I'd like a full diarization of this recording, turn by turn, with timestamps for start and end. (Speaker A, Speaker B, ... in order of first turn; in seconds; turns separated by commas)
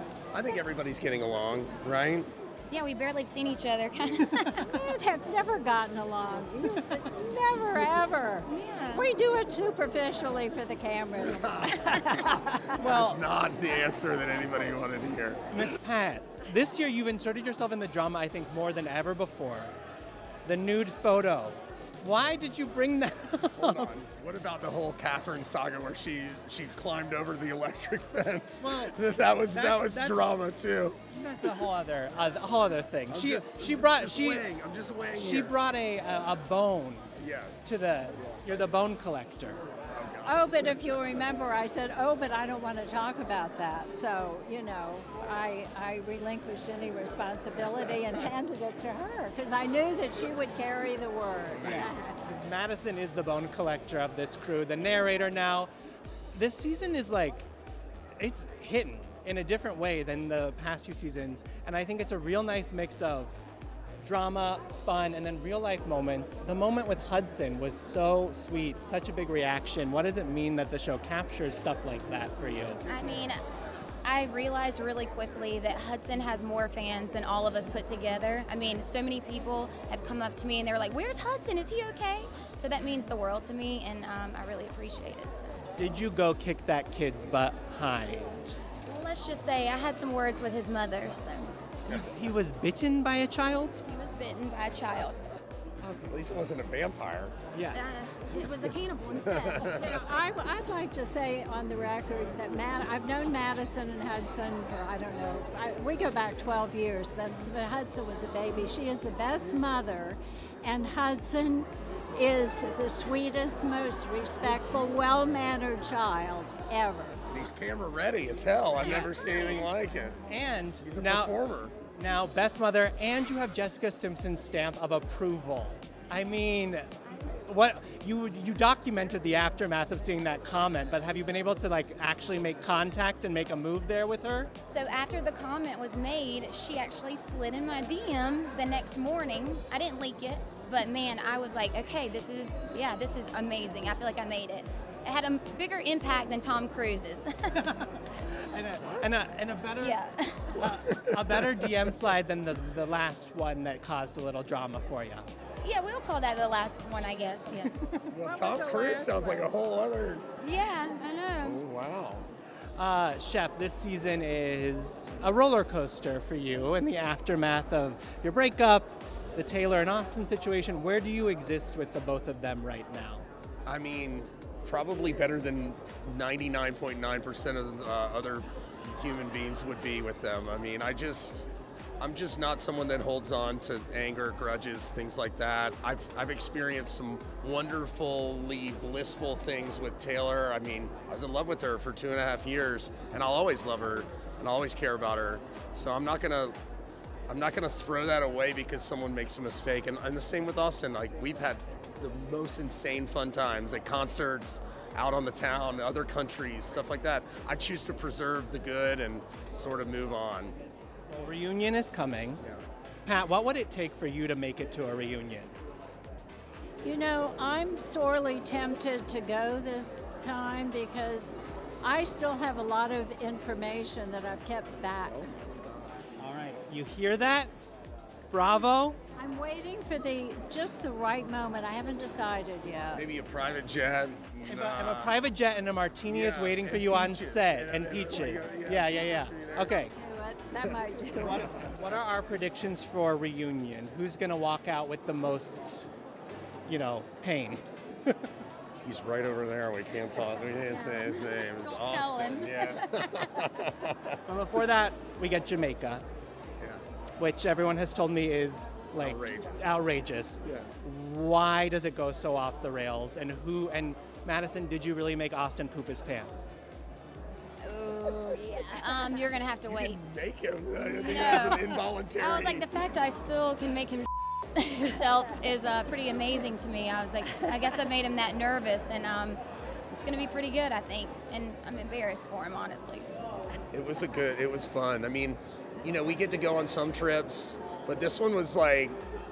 Speaker A: 0.3-2.3, Speaker B: 2.7-4.8, Speaker C: 4.6-12.8, Speaker B: 8.5-9.1, Speaker A: 11.2-15.4, Speaker D: 12.8-13.2, Speaker D: 15.5-19.7, Speaker D: 20.4-23.9, Speaker A: 23.6-31.0, Speaker D: 28.6-28.9, Speaker D: 29.5-30.2, Speaker D: 31.1-34.5, Speaker A: 33.1-35.5, Speaker D: 35.1-37.1, Speaker A: 37.2-37.7, Speaker D: 37.6-39.6, Speaker A: 39.9-41.0, Speaker C: 40.2-52.2, Speaker A: 47.7-48.0, Speaker A: 51.5-52.0, Speaker D: 51.6-55.7, Speaker D: 56.3-57.5, Speaker D: 58.2-63.4, Speaker D: 64.0-72.8, Speaker B: 72.9-73.4, Speaker B: 74.0-85.6, Speaker D: 85.8-88.6, Speaker B: 88.9-91.5, Speaker D: 91.9-93.8, Speaker B: 93.9-95.2, Speaker D: 95.8-96.1, Speaker A: 96.1-97.3, Speaker D: 97.5-98.0, Speaker B: 97.7-99.8, Speaker A: 99.2-100.0, Speaker C: 99.7-117.2, Speaker A: 117.3-120.2, Speaker B: 118.8-119.7, Speaker D: 120.3-134.5, Speaker A: 120.8-121.7, Speaker B: 134.7-147.5, Speaker D: 147.5-150.0, Speaker B: 149.8-150.6, Speaker D: 150.5-155.2, Speaker A: 150.7-151.7, Speaker B: 155.6-157.8, Speaker A: 158.1-160.2, Speaker C: 158.1-159.5, Speaker B: 160.4-161.6, Speaker A: 161.4-162.3, Speaker D: 162.8-173.2, Speaker A: 173.7-181.5, Speaker A: 182.0-196.6, Speaker A: 197.3-210.6, Speaker D: 211.1-212.4, Speaker D: 213.0-215.5, Speaker C: 216.8-225.3, Speaker D: 226.2-227.5, Speaker D: 228.3-229.0, Speaker C: 229.2-233.0, Speaker A: 232.9-235.2, Speaker D: 234.4-239.9, Speaker A: 236.1-239.8, Speaker C: 239.7-241.5, Speaker D: 241.1-245.9, Speaker D: 246.7-248.3, Speaker A: 248.8-254.2, Speaker B: 250.7-253.4, Speaker D: 254.3-256.0, Speaker D: 257.2-266.6, Speaker A: 259.0-259.8, Speaker B: 267.6-270.0, Speaker A: 269.7-272.7, Speaker B: 270.8-283.1, Speaker D: 271.0-271.6, Speaker A: 283.7-289.0